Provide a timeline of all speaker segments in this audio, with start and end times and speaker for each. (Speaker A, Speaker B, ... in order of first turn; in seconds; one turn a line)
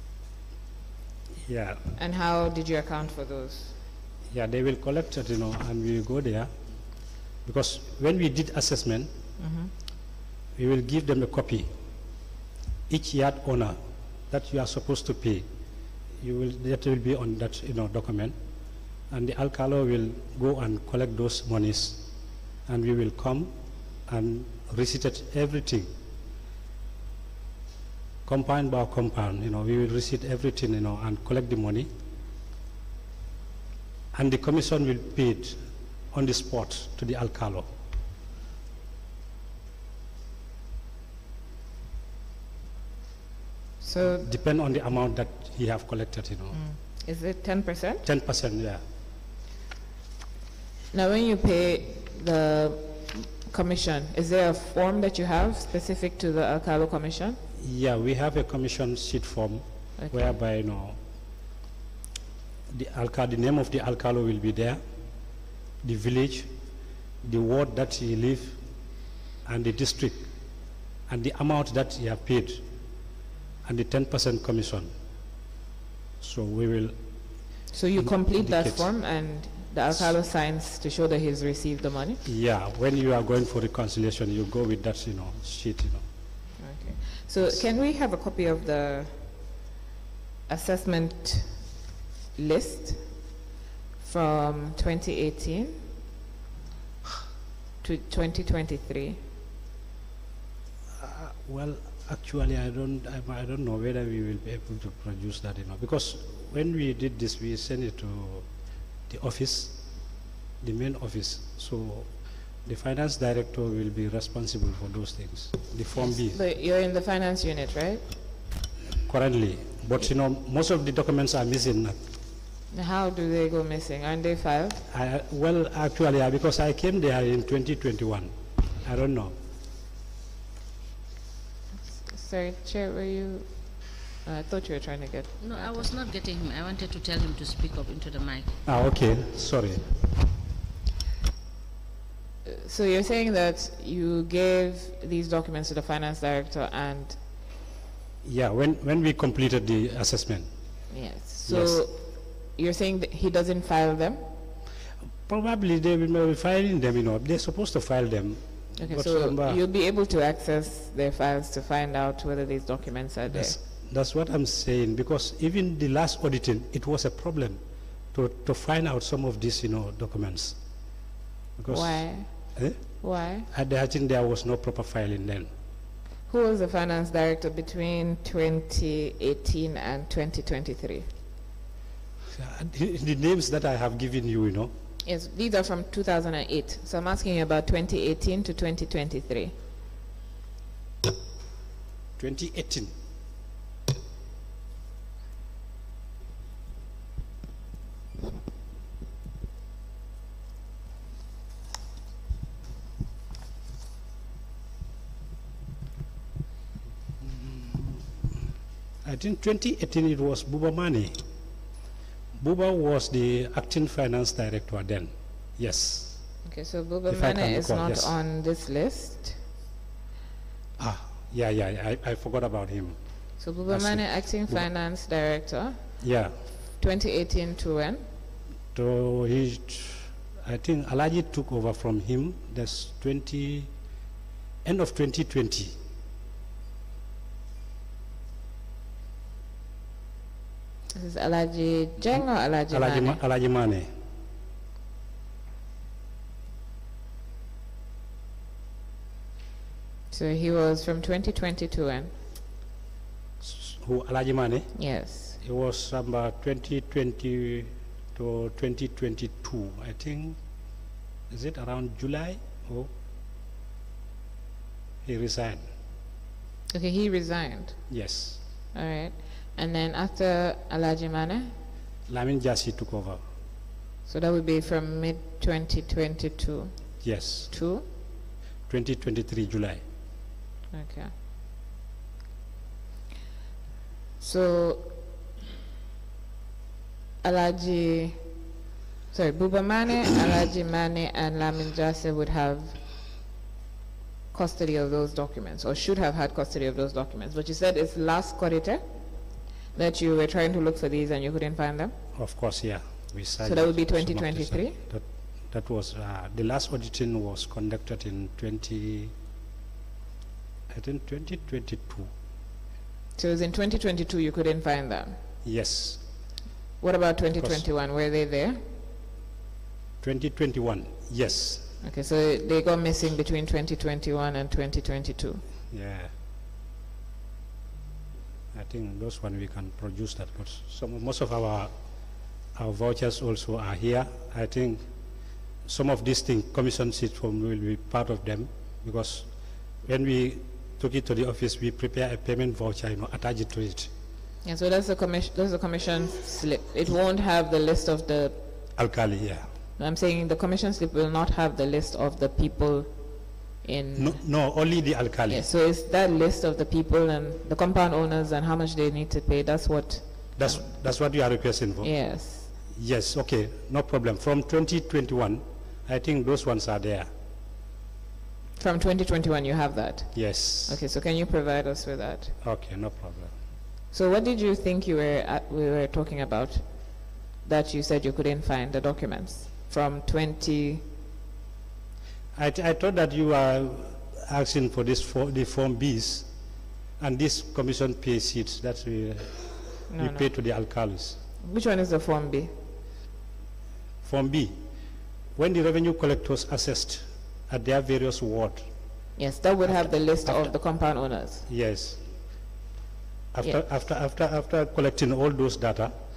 Speaker A: 1.4-1.9
Speaker B: 2.0-3.8
Speaker A: 4.3-6.5
Speaker A: 7.4-9.1
Speaker B: 9.4-9.7
Speaker A: 10.6-11.7
Speaker A: 12.9-13.8
Speaker A: 14.3-15.5
Speaker A: 16.2-18.4
Speaker A: 19.1-22.1
Speaker A: 22.7-23.5
Speaker A: 24.1-25.9
Speaker A: 28.2-31.9
Speaker A: 34.1-35.6
Speaker A: 36.1-37.7
Speaker B: 43.8-44.3
Speaker A: 44.2-46.6
Speaker B: 46.5-48.0
Speaker A: 48.0-48.8
Speaker B: 50.9-57.4
Speaker A: 57.6-61.0
Speaker B: 60.0-60.4
Speaker A: 62.7-64.8
Speaker A: 65.8-66.5
Speaker A: 67.2-68.6
Speaker A: 69.4-70.3
Speaker A: 71.1-72.7
Speaker A: 73.6-74.9
Speaker A: 76.2-77.0
Speaker B: 77.7-82.2
Speaker A: 78.0-78.9
Speaker A: 82.2-86.0
Speaker B: 86.6-89.5
Speaker B: 90.5-91.8
Speaker B: 92.3-93.2
Speaker B: 94.0-95.9
Speaker B: 97.8-99.2
Speaker A: 101.0-108.5
Speaker A: 109.1-109.8
Speaker A: 110.6-112.1
Speaker A: 112.7-116.4
Speaker B: 116.0-118.0
Speaker A: 119.0-122.0
Speaker B: 122.7-124.8
Speaker A: 124.9-129.3
Speaker B: 131.9-135.9
Speaker C: 135.4-138.6
Speaker A: 138.7-139.9
Speaker B: 142.4-147.2
Speaker A: 148.2-150.5
Speaker B: 150.9-154.3
Speaker A: 151.5-151.8
Speaker A: 155.3-159.6
Speaker B: 158.8-163.6
Speaker A: 163.3-167.6
Speaker A: 168.1-170.6
Speaker A: 171.6-172.8
Speaker B: 171.7-172.3
Speaker B: 173.0-173.5
Speaker A: 173.5-175.5
Speaker B: 176.3-181.1
Speaker A: 182.3-184.7
Speaker B: 185.0-189.6
Speaker A: 192.2-192.9
Speaker A: 207.2-208.0
Speaker A: 209.0-211.2
Speaker A: 212.4-216.2
Speaker B: 216.4-219.4
Speaker A: 217.1-218.1
Speaker A: 220.8-223.0
Speaker B: 223.4-225.9
Speaker A: 223.7-224.6
Speaker A: 226.0-226.4
Speaker B: 226.8-228.0
Speaker A: 228.7-233.7
Speaker A: 234.6-235.8
Speaker B: 240.9-243.2
Speaker A: 242.1-243.9
Speaker B: 250.1-252.1
Speaker A: 253.4-254.8
Speaker B: 254.8-255.4
Speaker A: 255.4-260.4
Speaker A: 261.3-262.9
Speaker A: 265.0-265.6
Speaker B: 266.7-267.8
Speaker A: 267.9-268.4
Speaker B: 268.7-271.6
Speaker A: 272.1-273.2
Speaker B: 274.1-277.9
Speaker A: 277.0-277.5
Speaker A: 278.7-279.8
Speaker B: 280.7-281.1
Speaker B: 284.2-285.0
Speaker B: 287.2-288.3
Speaker B: 289.1-292.8
Speaker B: 294.3-298.8
Speaker B: 299.7-301.9
Speaker A: 302.1-309.1
Speaker B: 303.4-304.8
Speaker A: 310.7-312.1
Speaker B: 313.2-315.2
Speaker A: 315.4-316.0
Speaker B: 316.8-318.6
Speaker A: 317.4-317.6
Speaker A: 320.0-321.7
Speaker B: 321.8-325.4
Speaker A: 325.7-326.1
Speaker A: 328.5-331.7
Speaker A: 332.6-334.9
Speaker A: 335.7-339.3
Speaker A: 339.8-343.9
Speaker B: 344.4-348.4
Speaker A: 348.8-349.5
Speaker B: 349.8-354.2
Speaker A: 354.0-355.5
Speaker B: 355.3-360.7
Speaker A: 360.4-361.9
Speaker B: 361.8-362.5
Speaker A: 362.7-367.1
Speaker B: 368.6-372.4
Speaker A: 370.1-370.8
Speaker A: 372.4-373.4
Speaker B: 373.9-376.7
Speaker B: 377.4-380.8
Speaker A: 382.4-386.3
Speaker A: 387.0-391.2
Speaker B: 389.9-390.3
Speaker B: 391.4-392.5
Speaker A: 394.0-394.6
Speaker A: 395.4-398.7
Speaker B: 399.2-401.5
Speaker A: 401.5-402.0
Speaker A: 403.3-405.9